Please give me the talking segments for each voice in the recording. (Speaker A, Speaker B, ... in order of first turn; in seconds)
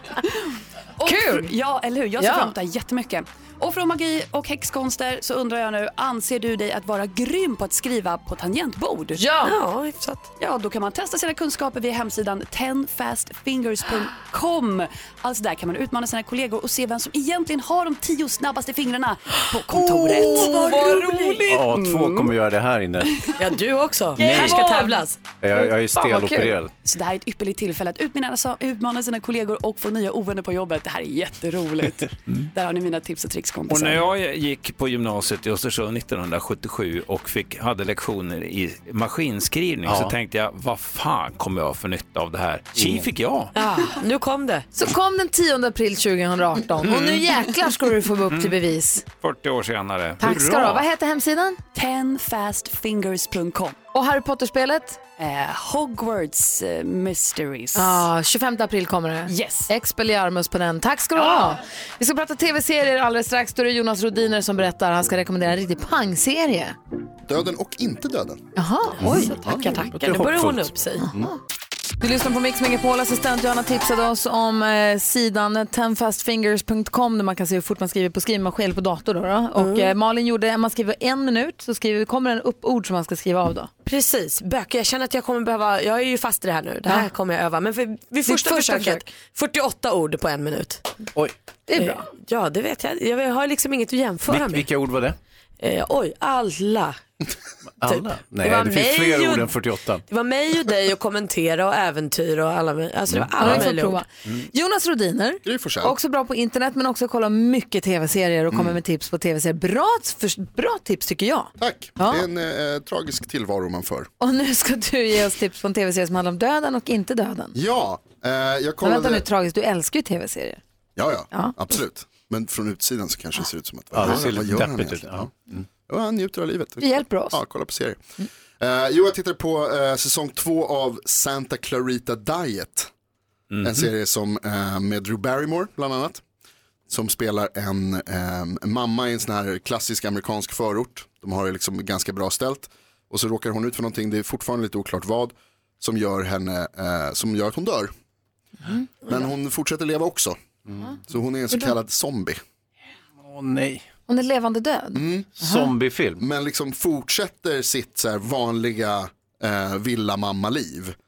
Speaker A: 1.0-9.3, 10.4-22.3, 26.8-34.1, 51.7-53.8, 55.2-58.1, 59.3-59.7
Speaker B: 1.0-1.5, 2.2-2.5, 9.2-9.5, 20.5-21.2, 24.2-25.0, 25.5-26.6, 44.7-49.0, 50.2-51.6, 53.9-55.0, 57.7-66.8, 68.5-69.4, 72.0-83.7, 88.2-89.0, 91.7-92.0, 103.4-112.2, 114.2-117.5, 118.8-120.6, 126.8-127.4, 154.1-155.7
Speaker C: 9.4-10.3, 23.4-25.2, 43.5-44.6, 69.3-71.1, 79.5-79.9, 83.8-90.8, 91.8-94.7, 95.6-97.0, 97.8-99.5, 100.1-104.0
Speaker D: 21.5-23.2, 24.2-24.7, 25.4-26.7, 39.8-40.1, 42.7-43.1, 69.0-69.3, 69.9-71.3, 94.3-95.2, 97.8-100.0, 103.1-103.6, 123.9-125.6, 153.2-153.8, 155.3-156.2
Speaker E: 33.7-43.5, 46.8-47.2, 48.3-48.6, 49.2-50.9, 133.5-133.9
Speaker F: 67.3-68.4, 69.3-69.7, 105.4-106.0, 108.5-108.8, 111.6-114.1, 117.5-119.2, 121.0-125.3, 125.9-128.0, 128.6-132.9, 133.6-136.2, 136.9-147.9, 149.1-152.4, 154.9-155.4, 156.2-160.9